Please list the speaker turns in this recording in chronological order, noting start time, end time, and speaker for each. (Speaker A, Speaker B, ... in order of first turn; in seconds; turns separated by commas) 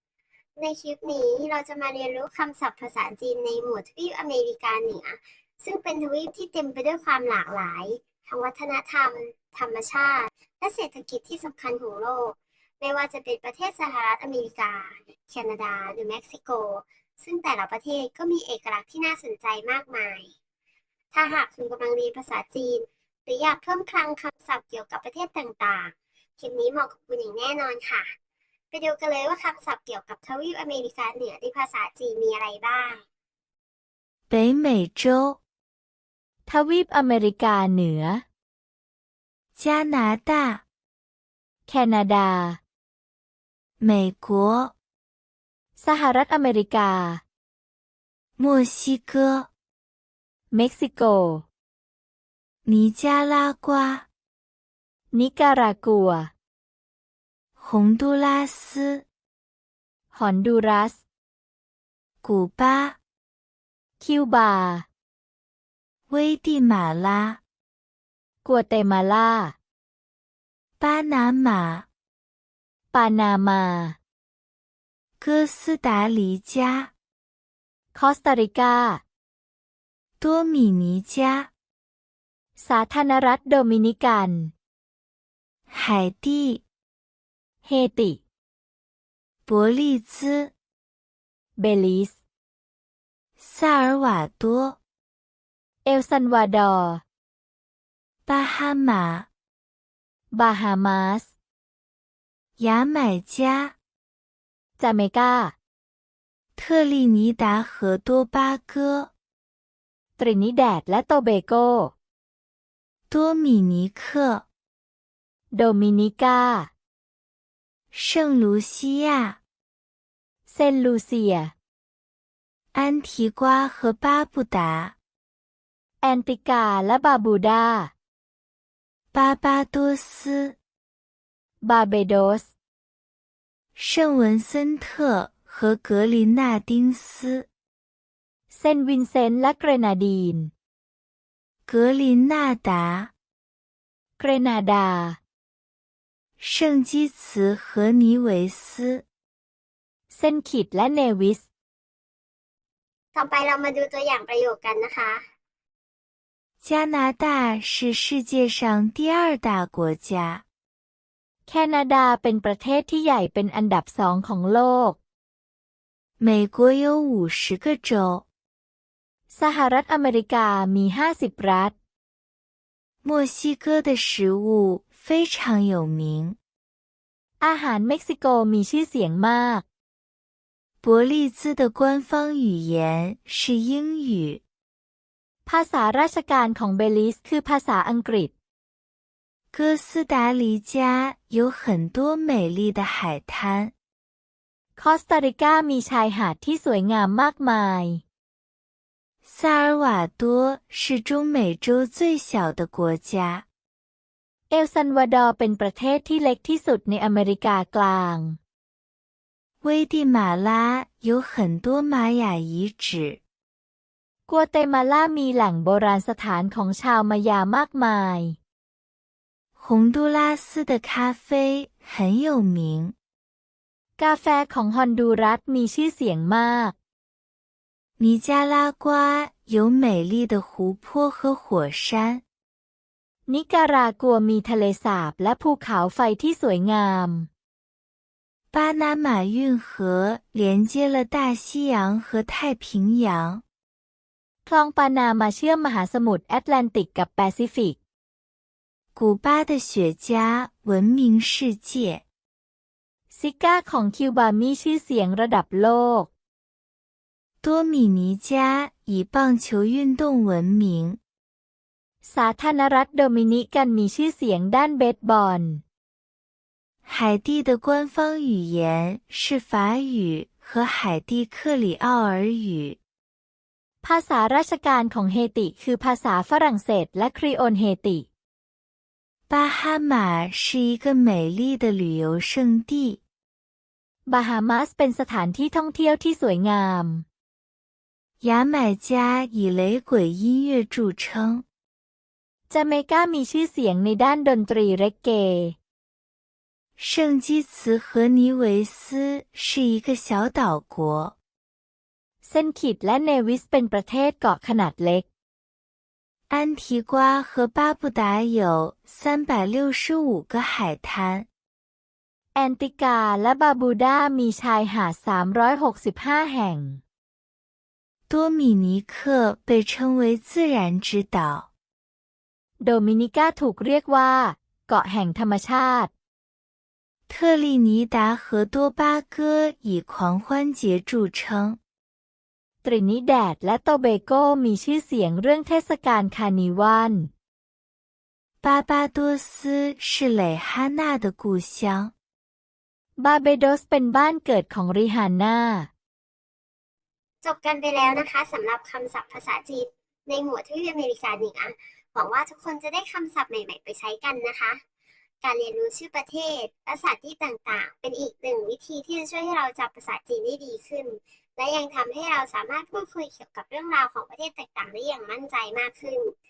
Speaker A: 0.6-20.3, Speaker A: 21.1-28.1, Speaker A: 28.7-33.0, Speaker B: 34.3-35.4, Speaker C: 36.5-38.2, Speaker B: 39.6-40.6, Speaker C: 41.7-42.6, Speaker B: 43.8-44.7, Speaker C: 45.8-47.2, Speaker B: 48.4-49.5, Speaker C: 50.5-51.4, Speaker B: 52.6-54.0, Speaker C: 55.1-56.3, Speaker B: 57.6-59.0, Speaker C: 60.1-61.0, Speaker B: 62.2-63.0, Speaker C: 64.0-64.8, Speaker B: 66.1-67.4, Speaker C: 68.4-69.5, Speaker B: 70.8-71.8, Speaker C: 72.9-74.0, Speaker B: 75.2-76.9, Speaker C: 77.9-79.0, Speaker B: 80.2-81.5, Speaker C: 82.5-84.5, Speaker B: 85.7-86.6, Speaker C: 87.6-88.2, Speaker B: 89.5-90.5, Speaker C: 91.6-92.2, Speaker B: 93.4-94.8, Speaker C: 95.8-97.0, Speaker B: 98.3-99.3, Speaker C: 100.3-101.3, Speaker B: 102.6-103.7, Speaker C: 104.8-105.5, Speaker B: 106.5-109.1, Speaker C: 110.2-111.9, Speaker B: 113.1-114.4, Speaker C: 115.5-116.7, Speaker B: 117.9-119.4, Speaker C: 120.5-121.5, Speaker B: 122.7-124.9, Speaker C: 126.0-127.9, Speaker B: 129.1-130.5, Speaker C: 131.6-132.5, Speaker B: 133.8-137.4, Speaker C: 138.5-140.5, Speaker B: 141.7-143.1, Speaker C: 144.2-145.2, Speaker B: 146.4-149.0, Speaker C: 150.1-151.4, Speaker A: 153.1-155.2, Speaker B: 156.6-160.4, Speaker C: 161.5-165.0, Speaker B: 166.2-168.2, Speaker C: 169.3-171.7, Speaker B: 173.0-176.4, Speaker C: 177.4-179.6, Speaker B: 180.8-184.4, Speaker C: 185.4-188.3, Speaker B: 189.5-193.7, Speaker C: 194.8-198.0, Speaker B: 199.2-203.4, Speaker C: 204.5-208.4, Speaker B: 209.6-213.2, Speaker C: 214.3-218.4, Speaker B: 219.6-222.9, Speaker C: 224.0-226.7, Speaker B: 228.0-232.2, Speaker C: 233.3-237.3, Speaker B: 238.5-243.4, Speaker C: 244.4-247.8, Speaker B: 248.9-252.0, Speaker C: 253.1-256.1, Speaker B: 257.4-261.0, Speaker C: 262.0-265.6, Speaker B: 266.9-272.8, Speaker C: 273.8-278.1, Speaker B: 279.3-283.0, Speaker C: 284.1-287.0, Speaker B: 288.2-291.4, Speaker C: 292.5-295.6, Speaker B: 296.8-301.1, Speaker C: 302.2-305.1, Speaker B: 306.3-311.2, Speaker C: 312.3-316.8, Speaker B: 318.1-321.5, Speaker C: 322.6-325.9, Speaker B: 327.1-331.6, Speaker C: 332.6-337.1, Speaker B: 338.4-341.9, Speaker C: 343.0-345.7, Speaker A: 347.2-354.6, Speaker A: 355.2-366.1